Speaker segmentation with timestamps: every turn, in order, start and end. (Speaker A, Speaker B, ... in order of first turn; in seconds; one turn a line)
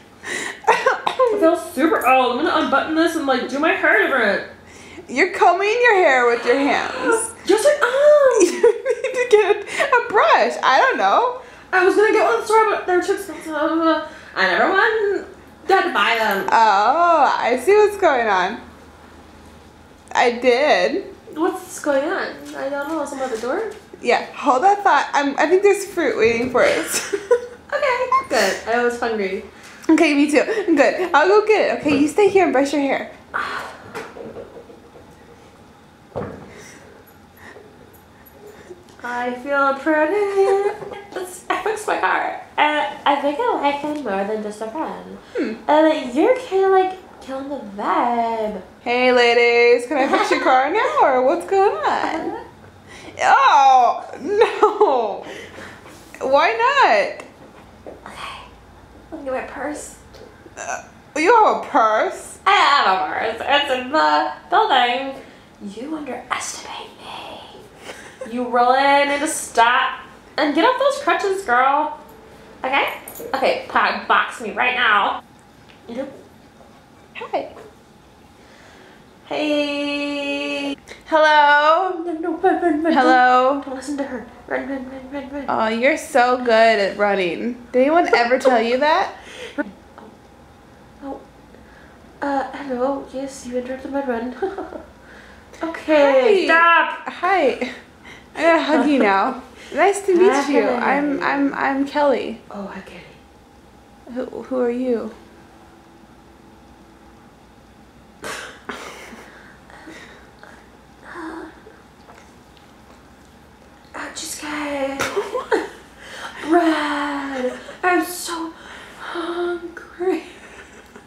Speaker A: 0.6-1.5
Speaker B: 1.3-4.5
Speaker A: 5.1-7.3
Speaker B: 6.9-8.6
Speaker A: 8.3-11.4
Speaker B: 11.7-16.6
Speaker A: 16.5-18.6
Speaker A: 20.1-21.1
Speaker B: 21.3-23.7
Speaker A: 24.0-27.4
Speaker B: 27.7-29.4
Speaker A: 29.9-33.1
Speaker B: 33.3-33.8
Speaker B: 39.0-48.6
Speaker A: 48.8-52.3
Speaker B: 50.0-50.7
Speaker B: 52.0-52.4
Speaker A: 53.1-55.3
Speaker A: 56.2-57.2
Speaker B: 58.0-58.5
Speaker B: 59.1-60.0
Speaker A: 60.6-62.4
Speaker B: 62.4-67.6
Speaker B: 68.2-71.9
Speaker B: 72.6-75.2
Speaker B: 75.9-76.1
Speaker A: 77.1-77.5
Speaker B: 79.2-80.7
Speaker A: 81.0-82.0
Speaker B: 82.0-85.5
Speaker A: 82.9-83.6
Speaker A: 85.5-89.1
Speaker B: 89.6-90.1
Speaker B: 92.2-94.8
Speaker B: 95.6-97.0
Speaker A: 95.9-97.8
Speaker A: 98.3-102.4
Speaker B: 98.7-99.1
Speaker B: 100.1-101.5
Speaker B: 102.5-103.2
Speaker A: 104.1-105.1
Speaker B: 111.0-111.5
Speaker B: 113.9-115.7
Speaker B: 116.2-120.4